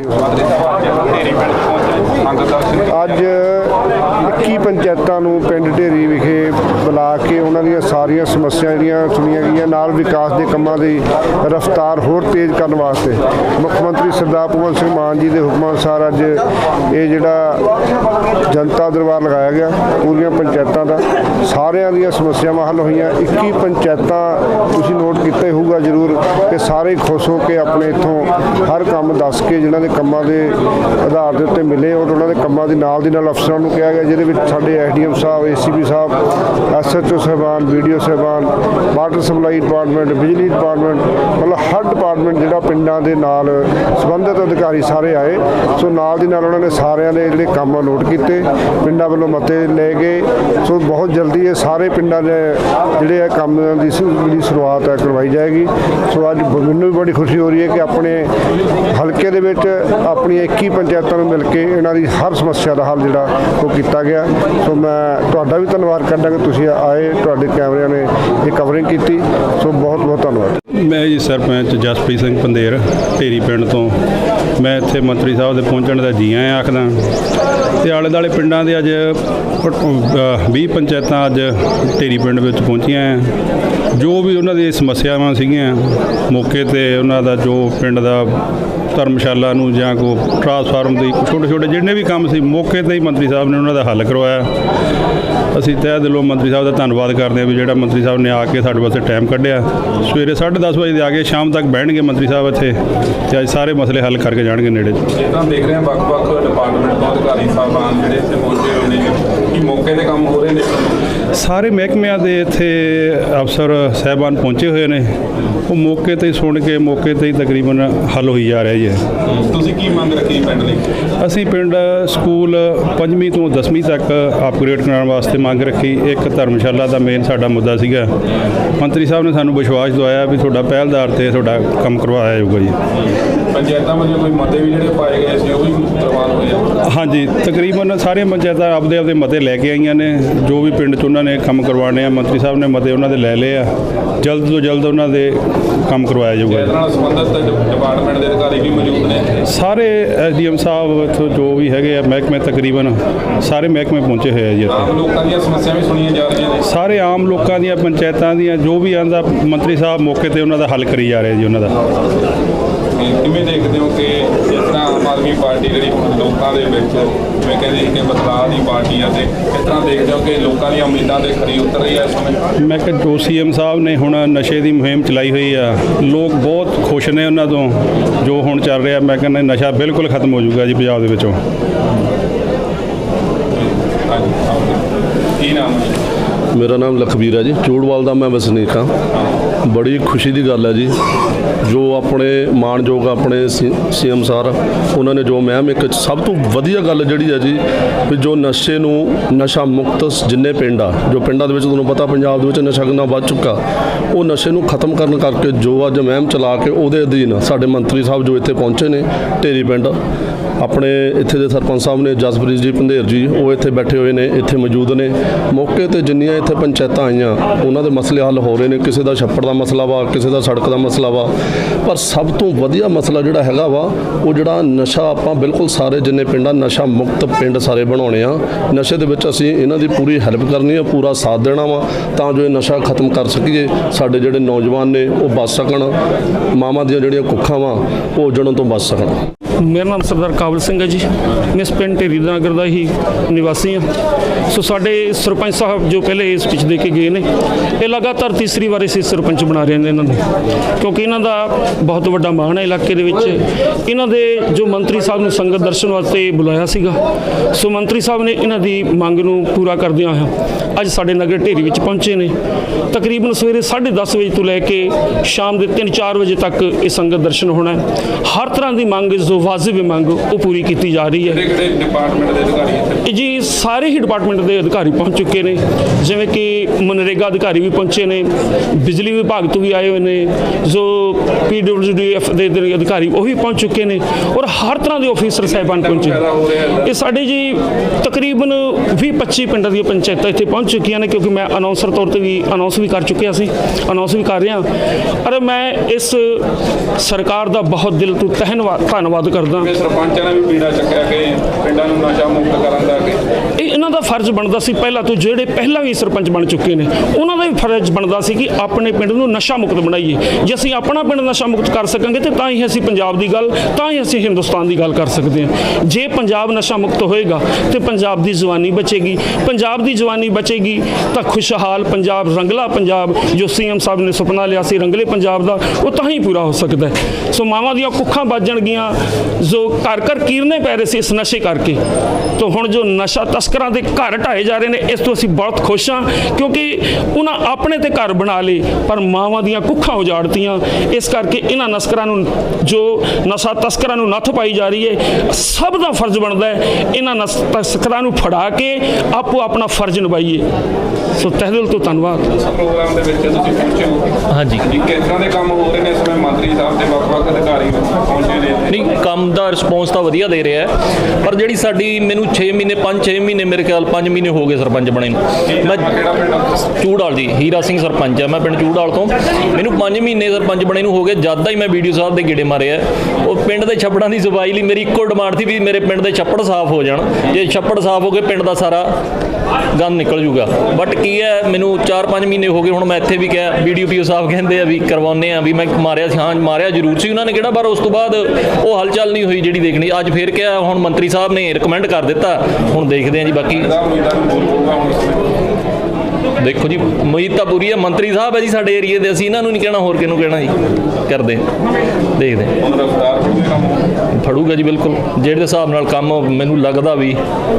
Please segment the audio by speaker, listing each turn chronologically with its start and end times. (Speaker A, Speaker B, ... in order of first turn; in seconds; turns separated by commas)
Speaker A: 0.1-3.2, Speaker B: 2.9-17.6, Speaker B: 18.5-36.2, Speaker B: 36.7-58.3, Speaker B: 58.9-70.5, Speaker C: 70.8-74.0, Speaker C: 74.6-77.0, Speaker C: 77.8-83.3, Speaker C: 84.0-88.4, Speaker C: 88.9-94.5, Speaker C: 95.5-102.8, Speaker C: 103.3-105.0, Speaker A: 105.1-111.1, Speaker C: 111.3-115.2, Speaker C: 115.7-119.0, Speaker A: 119.3-120.8, Speaker C: 121.2-128.1, Speaker C: 128.8-132.8, Speaker A: 133.0-136.7, Speaker C: 136.9-143.7, Speaker C: 144.2-146.7, Speaker A: 146.5-149.3, Speaker C: 149.5-154.9, Speaker A: 154.7-156.6, Speaker C: 156.6-161.8, Speaker A: 162.9-172.4, Speaker C: 172.6-181.4, Speaker A: 183.5-184.8, Speaker A: 185.4-186.0, Speaker D: 186.6-188.7, Speaker D: 189.7-190.9, Speaker D: 191.8-197.6, Speaker D: 198.1-203.6, Speaker D: 204.2-209.9, Speaker D: 210.6-221.3, Speaker D: 221.9-235.9, Speaker D: 236.6-239.0, Speaker E: 239.6-243.9, Speaker E: 244.5-247.3, Speaker E: 247.8-250.2, Speaker E: 250.8-257.0, Speaker E: 257.5-262.3, Speaker E: 262.9-271.4, Speaker A: 271.3-273.0, Speaker E: 273.1-294.6, Speaker A: 285.4-286.9, Speaker E: 295.2-296.4, Speaker E: 297.0-299.7, Speaker A: 299.6-303.2, Speaker E: 303.6-331.8, Speaker E: 332.4-350.5, Speaker E: 351.1-352.3, Speaker A: 352.4-354.1, Speaker F: 354.3-354.6, Speaker A: 354.6-358.9, Speaker F: 358.7-360.7, Speaker F: 361.2-365.9, Speaker A: 365.4-366.6, Speaker F: 366.7-378.9, Speaker F: 379.7-393.7, Speaker A: 393.5-395.3, Speaker F: 396.4-401.4, Speaker F: 402.2-402.6, Speaker A: 402.6-403.9, Speaker F: 404.2-407.2